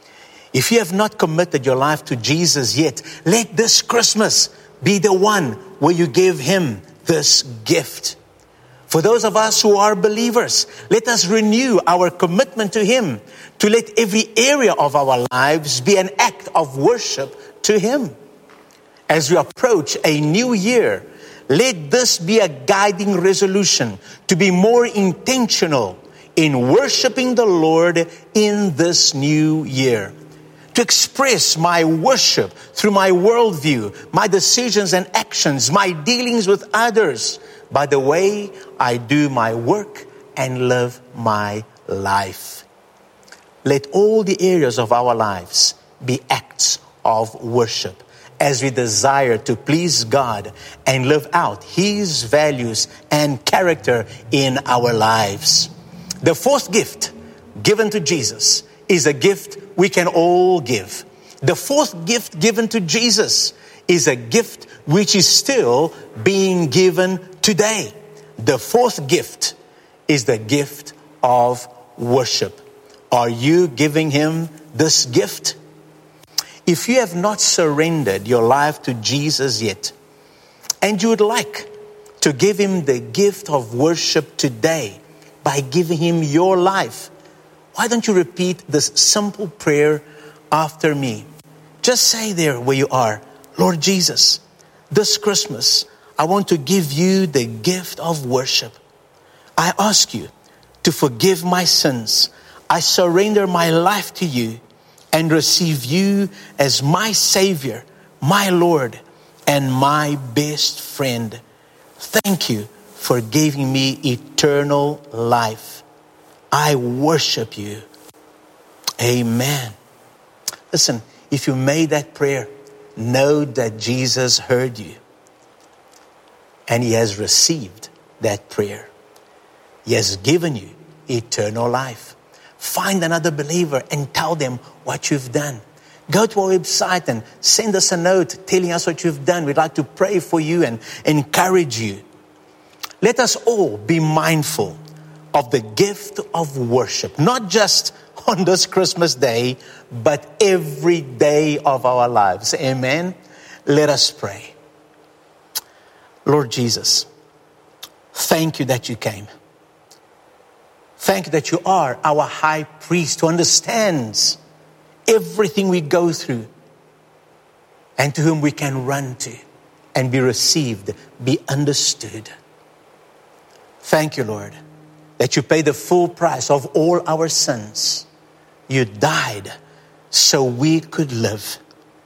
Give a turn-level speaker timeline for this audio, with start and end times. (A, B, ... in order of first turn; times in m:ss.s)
0:00.5-0:08.2 A
0:08.9-0:18.1 A
0:19.1-0:30.1 A
0:30.7-0:42.6 A
0:43.6-0:55.7 A
0:56.2-1:09.6 A
1:10.1-1:15.6 A
1:16.6-1:19.9 A
1:20.8-1:27.1 A
1:27.7-1:31.3 A
1:31.8-1:38.8 A
1:39.6-1:40.3 A
1:40.8-1:44.6 A
1:45.1-1:51.4 A
1:52.0-1:55.8 A
1:56.5-1:57.8 A
1:59.0-1:59.8 A
2:00.7-2:05.0 A
2:06.7-2:08.9 A
2:09.8-2:22.0 A
2:23.0-2:24.8 A
2:25.3-2:34.5 A
2:36.2-2:37.1 A
2:38.1-2:39.3 A
2:41.0-2:44.4 A
2:45.1-2:46.5 A
2:48.0-2:49.4 A
2:49.9-2:52.3 A
2:53.8-2:54.6 A
2:55.2-2:58.0 A
2:58.7-2:59.5 A
3:00.1-3:01.6 A